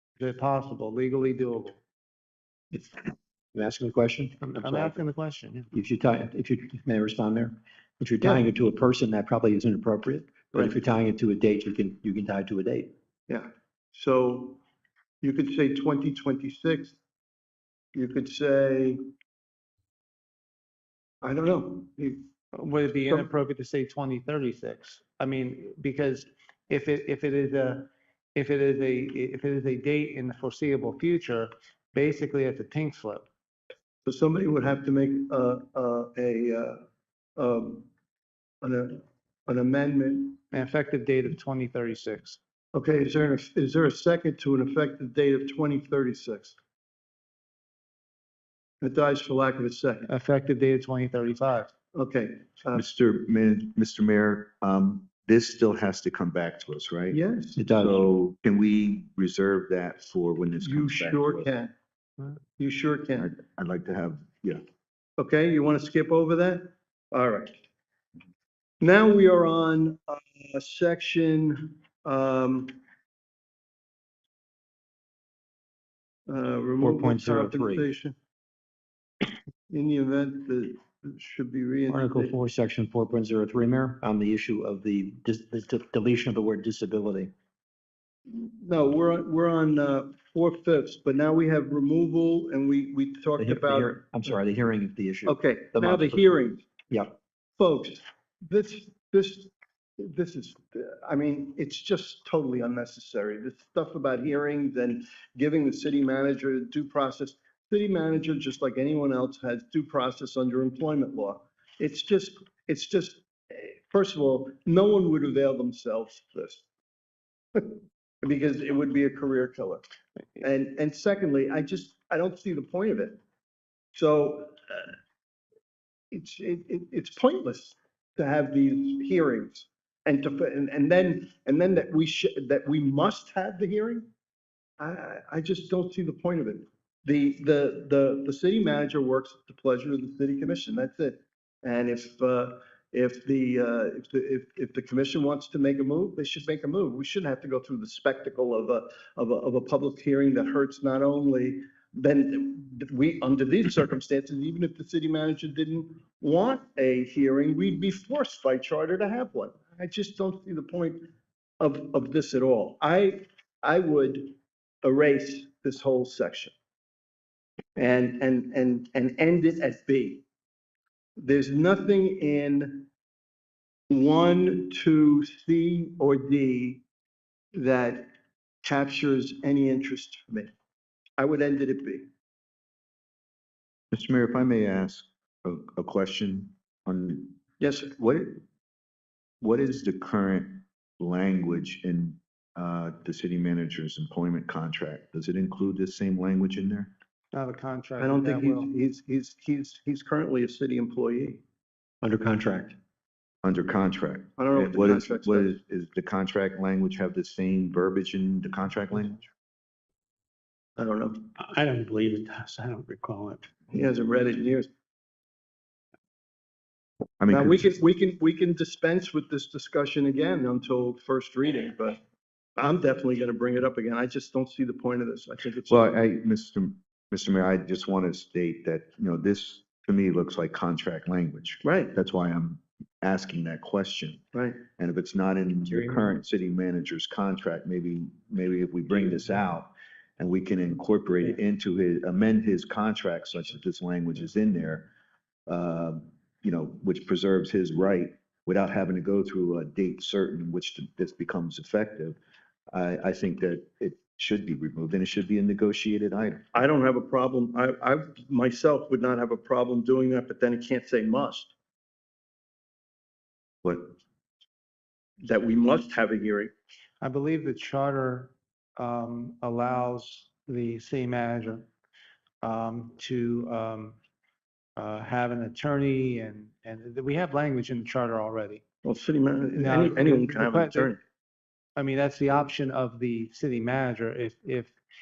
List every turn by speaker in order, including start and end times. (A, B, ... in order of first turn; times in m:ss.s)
0:00.2-0:01.8 A
0:02.7-0:04.9 B
0:04.5-0:05.7 A
0:05.7-0:12.9 B
0:13.3-0:14.6 C
0:15.2-0:17.0 C
0:17.9-0:19.0 C
0:21.2-0:22.2 C
0:22.5-0:33.3 A
0:34.0-0:36.8 C
0:37.4-0:37.9 C
0:38.6-0:40.4 C
0:40.5-0:42.4 A
0:42.7-0:46.6 C
0:48.8-0:50.1 C
0:50.1-0:51.7 A
0:51.9-0:52.8 C
0:52.7-0:57.2 D
0:57.1-0:57.6 C
0:57.6-0:58.1 B
0:57.8-1:01.5 D
1:00.6-1:01.7 C
1:02.6-1:03.3 C
1:03.2-1:04.6 D
1:05.2-1:07.6 C
1:08.8-1:12.8 C
1:16.3-1:18.2 C
1:16.8-1:17.9 B
1:19.7-1:22.4 C
1:21.9-1:27.3 B
1:28.3-1:34.3 C
1:33.4-1:36.4 B
1:35.2-1:36.6 C
1:37.6-1:56.6 C
1:57.5-1:59.8 C
2:00.4-2:03.2 C
2:04.0-2:05.0 C
2:06.1-2:14.1 C
2:14.8-2:41.1 C
2:41.6-2:46.5 C
2:47.8-2:50.2 C
2:51.2-2:52.9 C
2:53.9-2:56.8 C
2:57.5-2:58.1 C
2:58.6-3:00.5 C
3:01.2-3:02.1 C
3:03.9-3:07.4 D
3:07.6-3:07.9 C
3:08.0-3:08.4 D
3:09.4-3:16.9 D
3:17.3-3:18.7 A
3:18.0-3:21.4 C
3:22.0-3:22.8 B
3:23.4-3:29.3 D
3:24.4-3:25.6 C
3:30.8-3:31.3 C
3:31.4-3:33.5 E
3:33.7-3:34.7 C
3:37.2-3:37.6 D
3:37.3-3:42.0 C
3:42.6-3:45.9 C
3:45.7-3:54.2 D
3:51.6-3:51.9 C
3:54.3-3:54.6 C
3:54.8-4:04.9 D
4:05.5-4:12.2 D
4:12.7-4:16.4 D
4:16.5-4:21.5 C
4:25.2-4:26.5 C
4:27.0-4:31.7 A
4:32.4-4:34.0 A
4:34.8-4:38.6 A
4:38.8-4:41.0 C
4:39.6-4:40.9 A
4:41.8-4:44.7 A